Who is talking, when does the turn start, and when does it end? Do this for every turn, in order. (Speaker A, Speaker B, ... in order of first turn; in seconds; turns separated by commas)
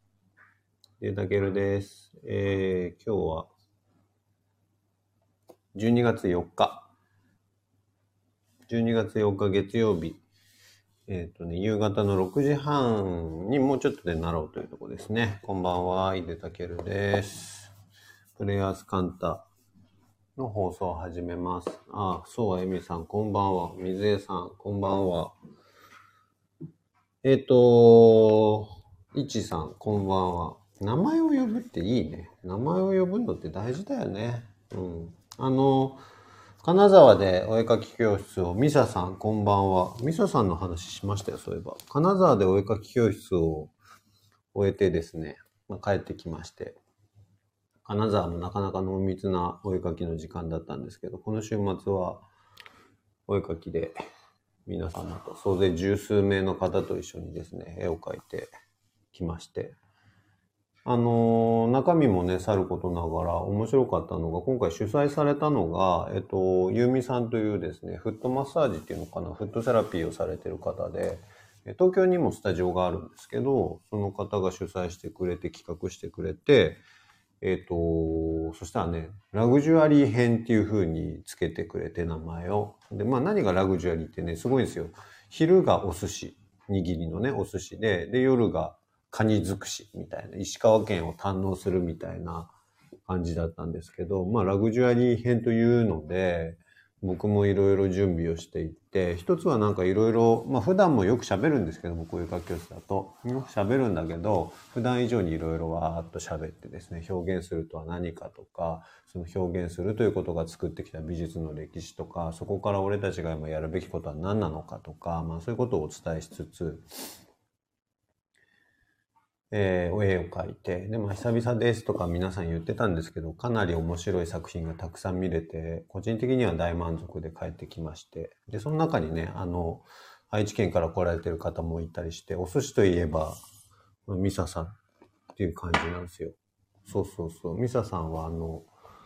Speaker A: 1.0-3.5, Speaker A: 5.8-6.9, Speaker A: 8.7-10.2, Speaker A: 11.1-17.7, Speaker A: 18.4-19.5, Speaker A: 20.4-25.4, Speaker A: 27.2-36.0, Speaker A: 36.6-43.7, Speaker A: 44.5-46.8, Speaker A: 47.9-52.3, Speaker A: 53.3-54.0, Speaker A: 54.7-58.5, Speaker A: 59.1-59.8, Speaker A: 60.9-76.8, Speaker A: 77.4-92.5, Speaker A: 93.1-116.9, Speaker A: 119.5-133.4, Speaker A: 134.1-134.8, Speaker A: 135.4-136.3, Speaker A: 136.9-138.7